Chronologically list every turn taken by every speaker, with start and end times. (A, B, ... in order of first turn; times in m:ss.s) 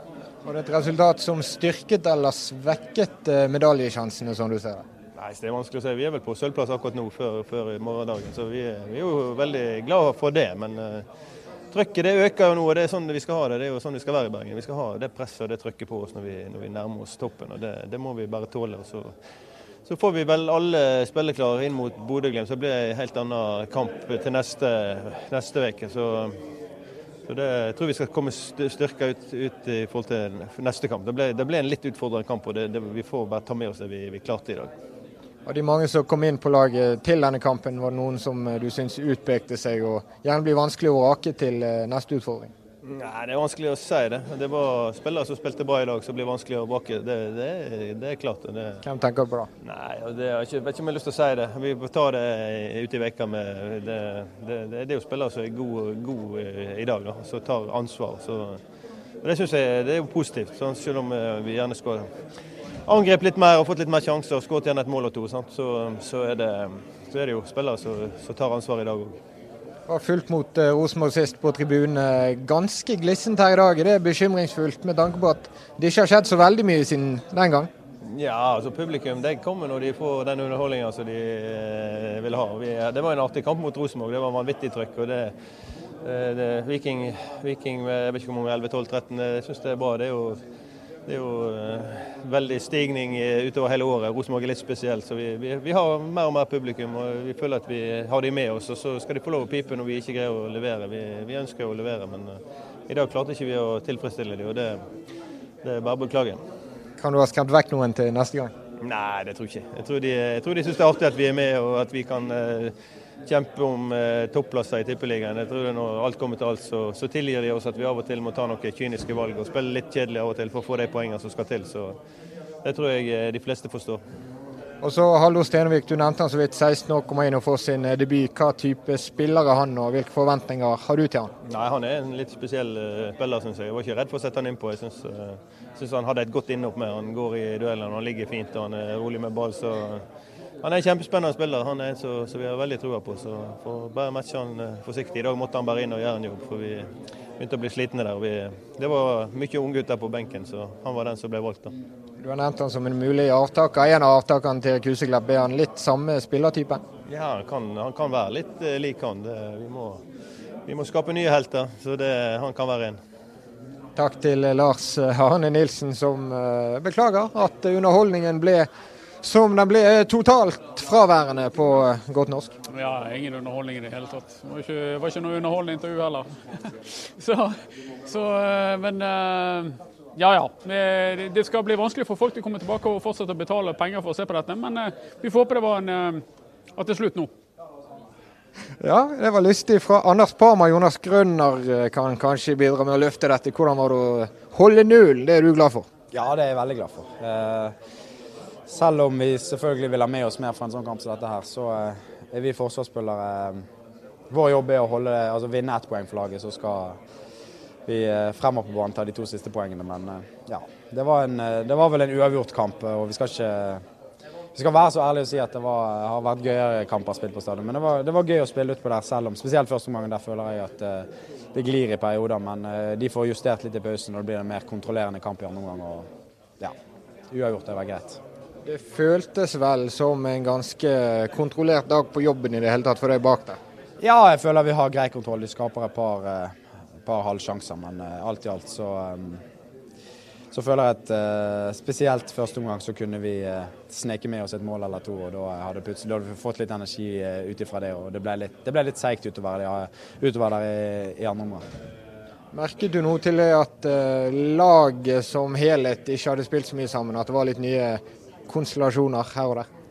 0:00.4-0:04.8 A
0:05.2-0:11.0 B
0:11.7-0:19.1 B
0:19.9-0:26.4 B
0:27.3-0:34.7 B
0:35.5-0:42.5 A
0:42.8-0:48.8 B
0:48.8-0:49.5 A
0:49.6-0:58.6 B
0:59.2-1:02.1 B
1:02.9-1:09.2 B
1:09.9-1:17.7 A
1:18.0-1:25.3 B
1:26.0-1:30.4 B
1:31.1-1:44.8 B
1:45.6-1:46.4 B
1:47.0-1:48.5 A
1:48.8-1:52.7 B
1:53.3-2:02.0 B
2:02.6-2:04.0 B
2:04.8-2:11.3 A
2:11.5-2:20.0 B
2:20.6-2:26.9 B
2:27.4-2:31.7 B
2:32.2-2:36.8 A
2:37.1-2:40.0 B
2:40.7-2:43.0 B
2:44.0-2:48.7 A
2:49.2-2:52.5 A
2:52.7-3:07.3 C
3:08.8-3:15.9 A
3:16.1-3:17.8 D
3:18.7-3:23.7 D
3:24.3-3:27.0 D
3:27.9-3:33.8 D
3:34.6-3:46.1 D
3:47.3-3:48.2 D
3:48.7-3:53.6 A
3:54.0-3:59.4 D
4:00.5-4:11.6 D
4:12.5-4:19.7 A